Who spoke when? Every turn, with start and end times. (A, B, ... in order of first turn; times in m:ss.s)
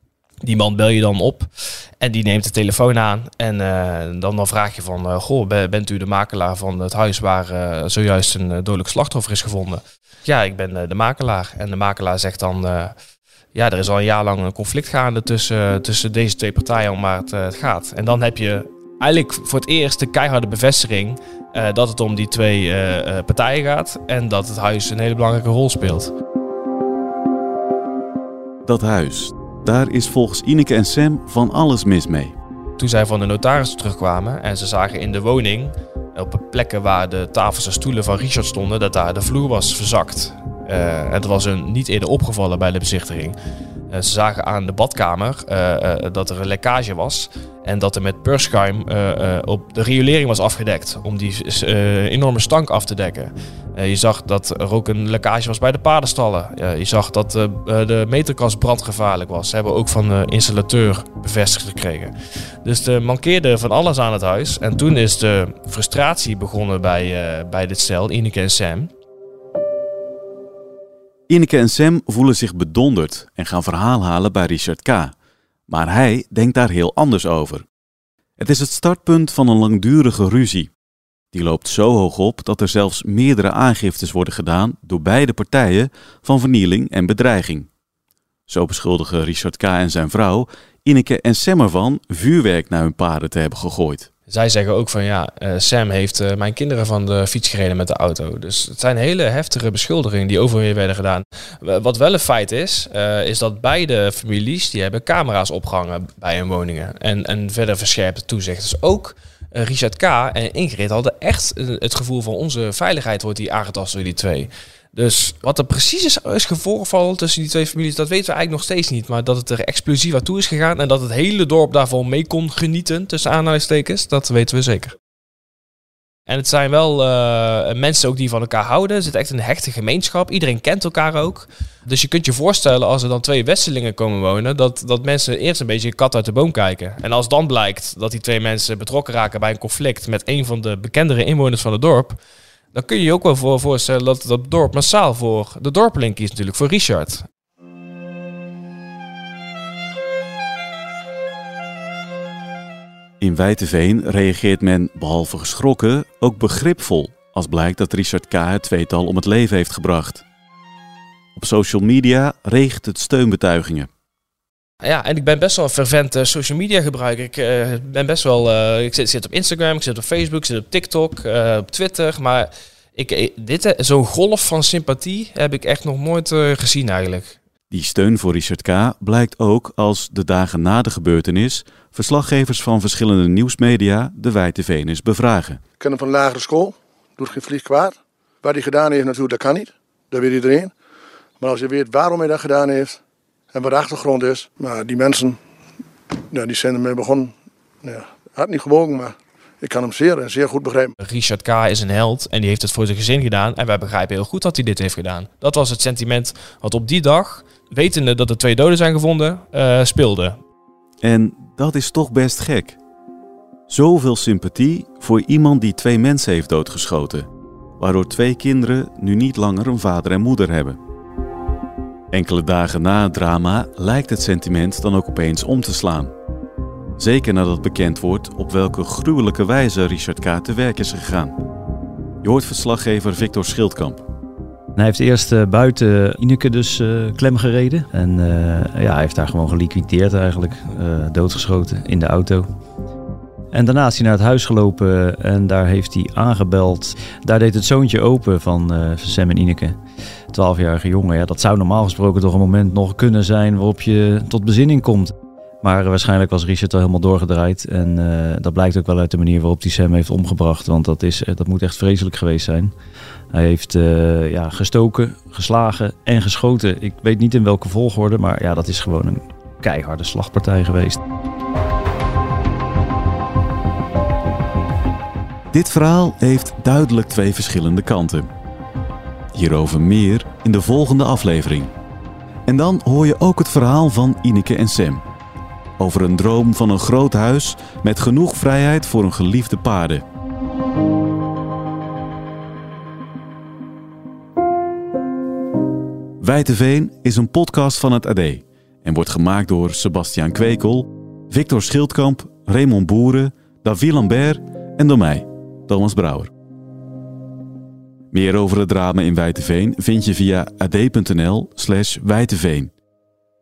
0:00.4-0:01.5 A
0:02.0-0:12.9 A
0:13.5-0:26.1 A
0:28.6-0:32.4 B
0:32.8-0:43.4 A
0:43.9-1:08.9 A
1:11.3-1:15.1 B
1:15.7-1:17.6 B
1:18.4-1:20.7 B
1:21.3-1:27.7 B
1:28.5-1:34.1 B
1:34.3-2:04.9 A
2:06.3-2:22.2 A
2:22.7-2:27.2 A
2:33.2-2:40.2 B
2:41.4-2:43.9 B
2:44.8-2:57.4 A
2:57.7-3:05.6 B
3:05.8-3:10.7 C
3:11.4-3:13.0 C
3:13.5-3:15.4 C
3:16.3-3:17.3 C
3:17.8-3:20.9 C
3:21.0-3:30.4 A
3:31.0-3:32.8 B
3:33.7-3:37.3 B
3:37.8-3:40.8 B
3:42.1-3:46.1 B
3:47.0-3:51.4 B
3:52.2-3:54.0 B
3:54.7-4:02.5 D
4:03.5-4:09.8 D
4:10.3-4:22.7 D
4:23.3-4:31.0 D
4:35.5-4:38.3 B
4:39.3-4:41.7 B
4:42.5-4:45.0 B
4:45.8-4:50.0 B
4:56.2-5:06.3 B
5:08.1-5:12.7 B